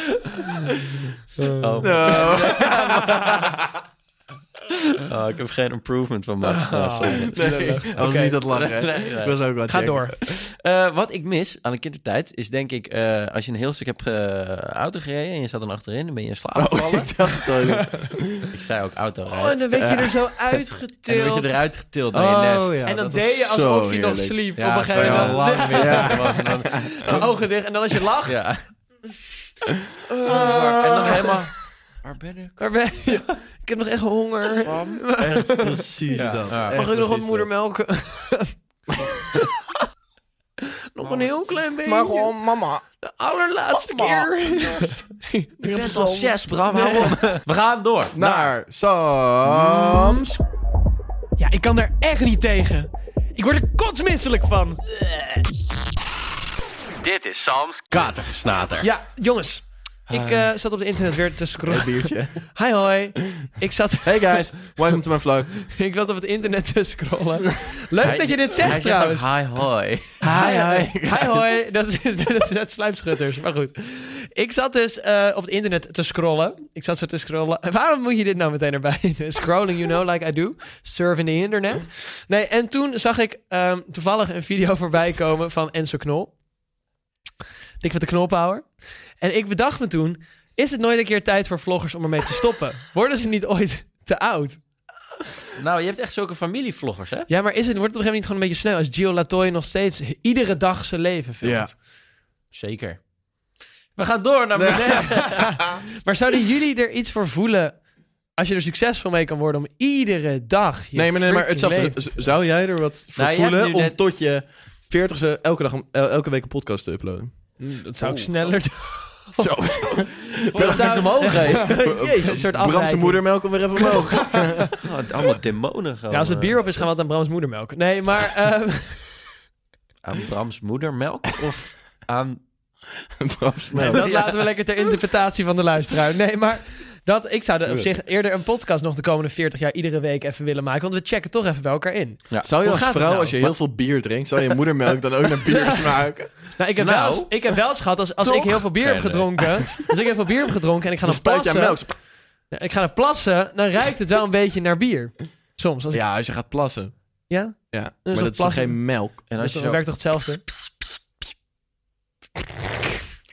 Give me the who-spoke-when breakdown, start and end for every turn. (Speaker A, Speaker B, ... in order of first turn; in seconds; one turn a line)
Speaker A: 0.8-1.1
Speaker B: 1.4-3.1
Speaker C: 1.6-3.5
Speaker A: 1.8-3.8
Speaker C: 4.9-7.7
Speaker B: 6.4-8.4
Speaker A: 7.3-10.3
Speaker C: 8.3-9.4
Speaker B: 9.7-10.1
Speaker C: 10.2-17.2
Speaker A: 16.6-18.5
Speaker B: 17.3-18.0
Speaker C: 18.5-19.7
Speaker B: 19.3-21.6
Speaker A: 19.7-20.2
Speaker C: 21.1-22.9
Speaker A: 22.1-24.4
Speaker B: 22.9-28.4
Speaker C: 24.6-27.3
Speaker A: 24.9-27.3
Speaker C: 28.2-28.6
Speaker B: 30.1-31.3
Speaker A: 30.1-31.4
Speaker C: 30.2-32.6
Speaker B: 32.6-35.8
Speaker C: 34.5-35.0
Speaker A: 35.2-37.5
Speaker C: 36.1-36.9
Speaker B: 36.7-39.5
Speaker B: 40.9-42.3
Speaker A: 41.8-42.8
Speaker B: 43.0-45.5
Speaker A: 43.7-44.9
Speaker A: 45.6-46.4
Speaker C: 45.7-48.5
Speaker B: 46.7-47.4
Speaker A: 48.1-50.3
Speaker C: 49.5-50.2
Speaker B: 51.4-54.8
Speaker C: 57.0-58.9
Speaker B: 58.8-64.7
Speaker A: 61.6-62.4
Speaker A: 64.0-65.5
Speaker B: 65.6-69.2
Speaker C: 68.0-70.4
Speaker A: 70.2-71.4
Speaker B: 70.3-86.3
Speaker B: 87.8-88.7
Speaker B: 89.2-94.6
Speaker C: 95.5-97.3
Speaker B: 97.3-101.7
Speaker A: 101.4-101.7
Speaker C: 102.5-103.0
Speaker C: 104.0-105.7
Speaker A: 104.5-105.1
Speaker B: 104.8-107.8
Speaker B: 108.4-112.3
Speaker A: 110.9-117.3
Speaker C: 113.2-114.0
Speaker B: 117.6-124.7
Speaker C: 118.0-118.5
Speaker A: 119.4-124.8
Speaker C: 120.5-122.4
Speaker C: 124.8-126.6
Speaker B: 126.1-129.1
Speaker C: 130.0-132.4
Speaker A: 133.2-134.1
Speaker C: 133.7-134.4
Speaker B: 133.8-143.5
Speaker A: 142.4-146.4
Speaker B: 145.4-146.0
Speaker B: 146.5-151.8
Speaker C: 146.8-147.5
Speaker A: 148.2-148.6
Speaker C: 148.8-149.7
Speaker A: 151.0-151.9
Speaker B: 152.5-156.0
Speaker A: 155.9-156.9
Speaker B: 157.3-160.4
Speaker A: 157.7-159.2
Speaker C: 159.3-159.8